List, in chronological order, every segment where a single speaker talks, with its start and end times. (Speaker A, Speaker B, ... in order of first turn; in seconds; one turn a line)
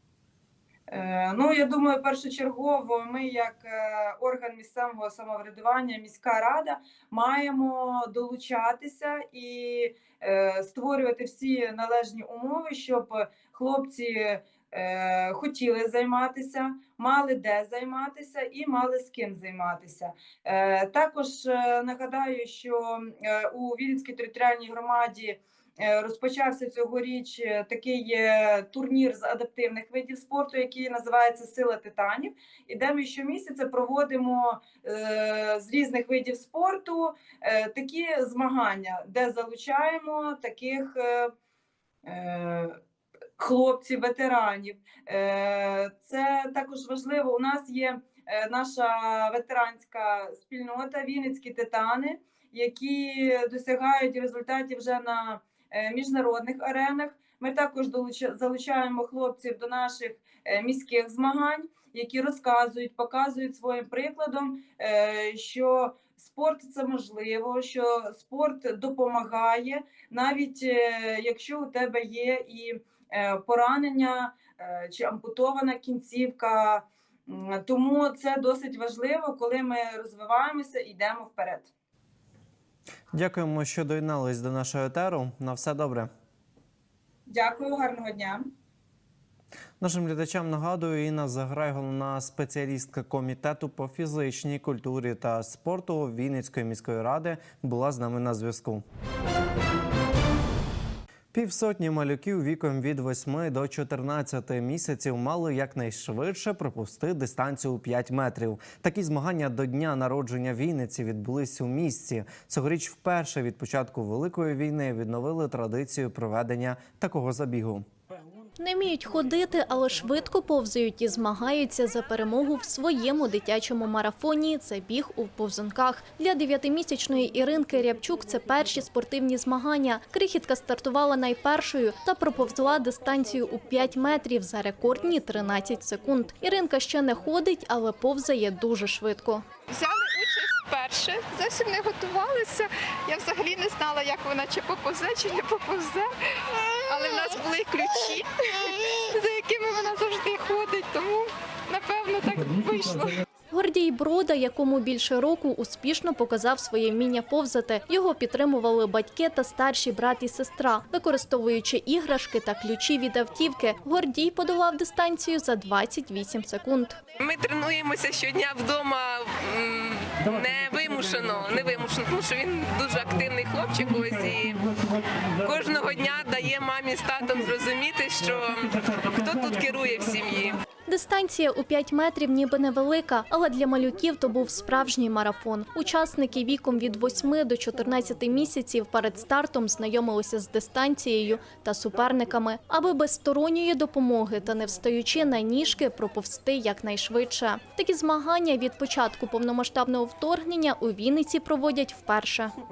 Speaker A: 0.9-41.3
Speaker A: 42.1-42.8
Speaker A: 43.4-81.7
Speaker B: 83.1-86.1
Speaker A: 87.3-88.5
Speaker B: 89.8-98.8
Speaker B: 101.3-117.9
Speaker C: 118.6-139.5
Speaker D: 139.7-146.1
Speaker D: 146.8-153.2
Speaker C: 153.5-167.0
Speaker E: 167.2-180.6
Speaker C: 180.9-202.5